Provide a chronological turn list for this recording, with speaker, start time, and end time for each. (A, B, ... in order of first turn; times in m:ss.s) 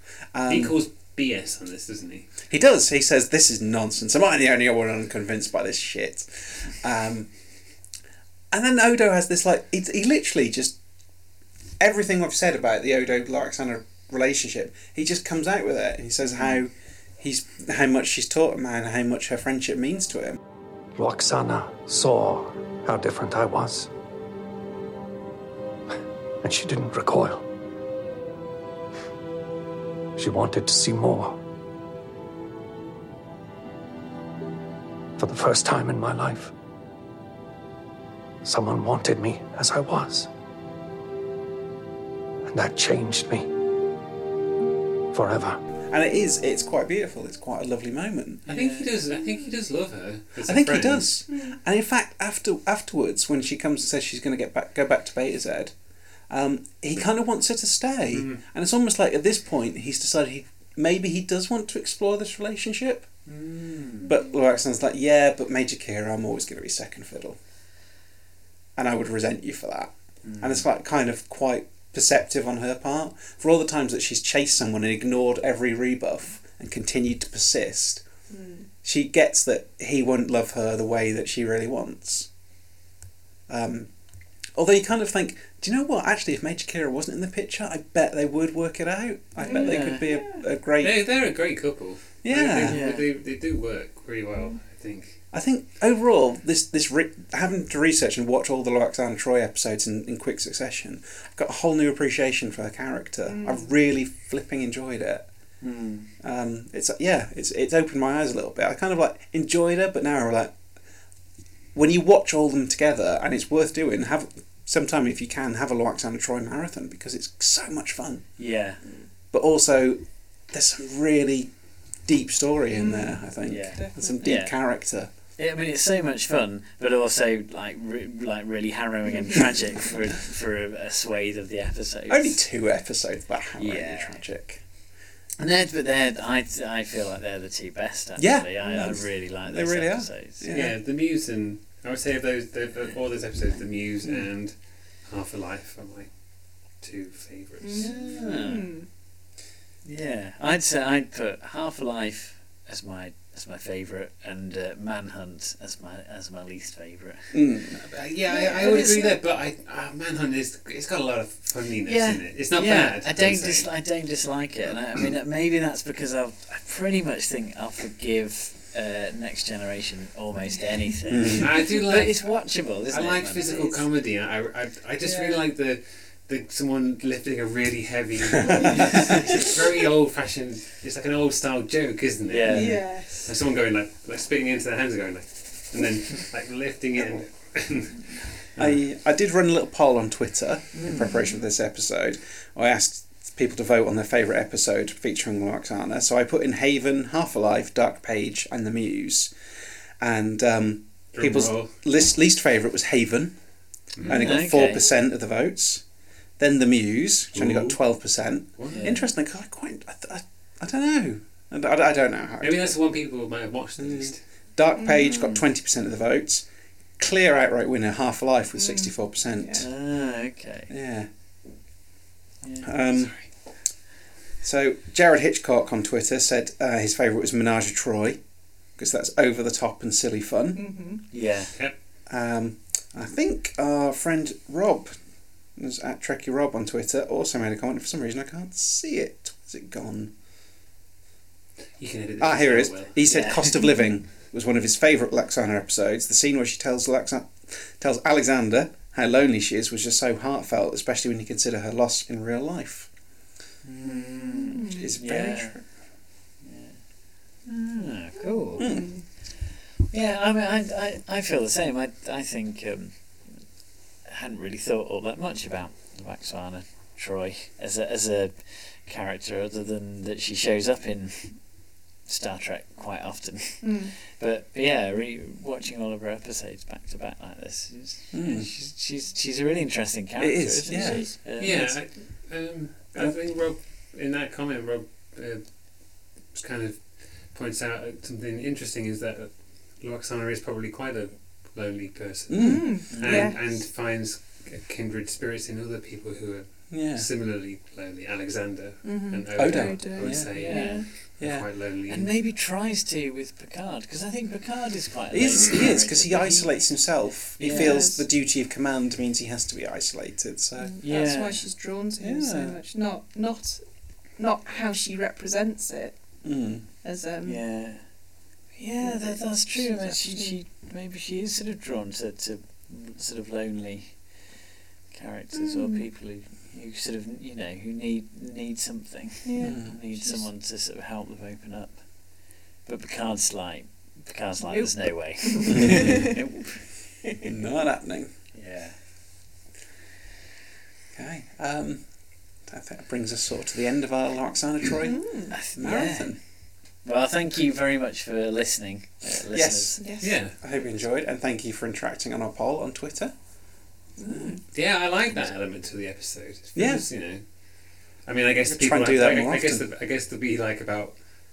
0:00.3-0:00.7 A
0:00.5-0:02.3 B
0:02.5-0:07.3 A
0:08.5-0:10.8 A
0:11.8-0:20.4 A
0:20.9-0:23.9 C
0:26.4-0:27.4 C
0:30.2-0:31.4 C
0:35.2-0:36.5 C
0:38.4-0:40.3 C
0:42.5-0:43.5 C
0:45.1-0:45.6 C
0:45.9-0:48.4 A
0:48.5-0:48.9 D
0:48.5-0:51.1 B
0:50.4-0:55.7 A
0:51.3-0:51.6 E
0:56.3-1:03.1 A
0:58.1-0:58.4 B
1:03.3-1:04.1 D
1:04.0-1:07.4 A
1:08.8-1:18.0 A
1:10.2-1:10.6 D
1:18.3-1:18.7 E
1:18.8-1:22.3 A
1:23.5-1:23.9 A
1:24.5-1:31.0 A
1:29.4-1:30.1 D
1:29.4-1:30.4 E
1:30.8-1:35.2 B
1:32.2-1:32.8 A
1:32.6-1:33.1 D
1:35.3-1:45.2 A
1:43.2-1:43.7 E
1:45.6-1:46.1 D
1:46.2-1:50.5 A
1:51.7-1:58.3 A
1:58.4-1:58.8 D
1:59.3-2:00.0 A
2:00.5-2:01.5 A
2:02.0-2:05.1 A
2:02.7-2:03.2 E
2:03.4-2:04.5 D
2:03.7-2:04.2 E
2:05.4-2:12.4 D
2:12.1-2:14.6 A
2:13.6-2:14.2 D
2:15.4-2:20.5 D
2:18.2-2:20.8 A
2:20.5-2:26.1 B
2:26.8-2:27.9 B
2:27.6-2:28.9 E
2:27.8-2:28.7 D
2:28.0-2:28.4 A
2:29.8-2:37.4 D
2:37.3-2:37.8 A
2:37.9-2:43.7 B
2:38.3-2:39.1 E
2:38.4-2:39.1 D
2:41.8-2:53.8 D
2:51.1-2:51.5 A
2:51.4-2:52.3 B
2:52.9-3:08.8 B
2:55.0-2:55.5 E
2:58.7-2:59.0 A
3:02.3-3:02.8 D
3:02.5-3:03.3 E
3:08.6-3:19.3 A
3:10.8-3:11.1 D
3:11.0-3:11.3 E
3:20.0-3:23.4 A
3:21.1-3:21.8 B
3:24.0-3:24.2 B
3:24.0-3:25.8 A
3:24.0-3:24.8 D
3:26.4-3:32.8 A
3:27.3-3:27.8 B
3:28.6-3:28.8 B
3:28.7-3:29.1 D
3:32.4-3:34.2 B
3:33.8-3:36.5 A
3:34.8-3:35.1 E
3:34.9-3:35.4 D
3:37.0-3:39.7 A
3:38.6-3:39.6 E
3:39.6-3:40.7 D
3:40.7-3:41.1 A
3:42.4-3:43.2 D
3:42.6-3:43.1 A
3:44.4-3:48.2 A
3:48.8-3:50.6 A
3:50.5-3:51.0 E
3:51.1-3:51.5 D
3:52.1-3:54.9 A
3:55.6-4:00.1 A
4:01.8-4:03.6 B
4:02.2-4:12.9 A
4:03.1-4:03.7 D
4:13.6-4:15.6 D
4:13.9-4:14.9 E
4:14.7-4:15.6 A
4:16.4-4:16.8 D
4:17.4-4:18.7 D
4:18.5-4:19.0 E
4:18.6-4:18.9 A
4:19.9-4:23.4 D
4:24.0-4:31.4 D
4:32.0-4:41.7 D
4:33.6-4:33.9 E
4:38.1-4:38.5 A
4:40.2-4:41.7 A
4:40.7-4:41.2 E
4:41.4-4:45.4 B
4:46.3-5:02.1 B
4:52.3-4:53.3 A
4:52.4-4:53.3 E
4:56.7-4:57.1 A
4:58.8-5:00.8 E
4:59.3-5:01.5 A
5:00.3-5:00.9 D
5:01.9-5:06.6 D
5:05.1-5:11.1 A
5:07.4-5:07.9 D
5:07.4-5:08.0 E
5:10.6-5:13.6 E
5:10.8-5:11.4 D
5:12.0-5:12.6 A
5:14.2-5:16.0 E
5:16.2-5:16.6 A
5:16.8-5:17.4 E
5:17.2-5:17.8 D
5:18.6-5:24.0 D
5:18.8-5:20.4 E
5:24.9-5:31.8 D
5:25.3-5:25.9 E
5:29.2-5:30.3 E
5:29.4-5:29.7 A
5:32.6-5:37.2 D
5:35.2-5:36.0 E
5:35.4-5:36.1 A
5:37.2-5:38.1 A
5:38.3-5:38.8 D
5:40.9-5:41.8 A
5:42.4-5:46.2 A
5:44.8-5:45.3 E
5:45.3-5:46.2 D
5:46.8-5:49.8 D
5:49.3-5:53.1 A
5:49.8-5:50.1 E
5:50.0-5:50.4 B
5:54.0-5:54.4 E
5:54.1-5:54.4 A
5:54.5-5:57.2 B
5:56.5-5:56.8 A
5:58.0-6:01.0 B
5:58.4-5:59.6 A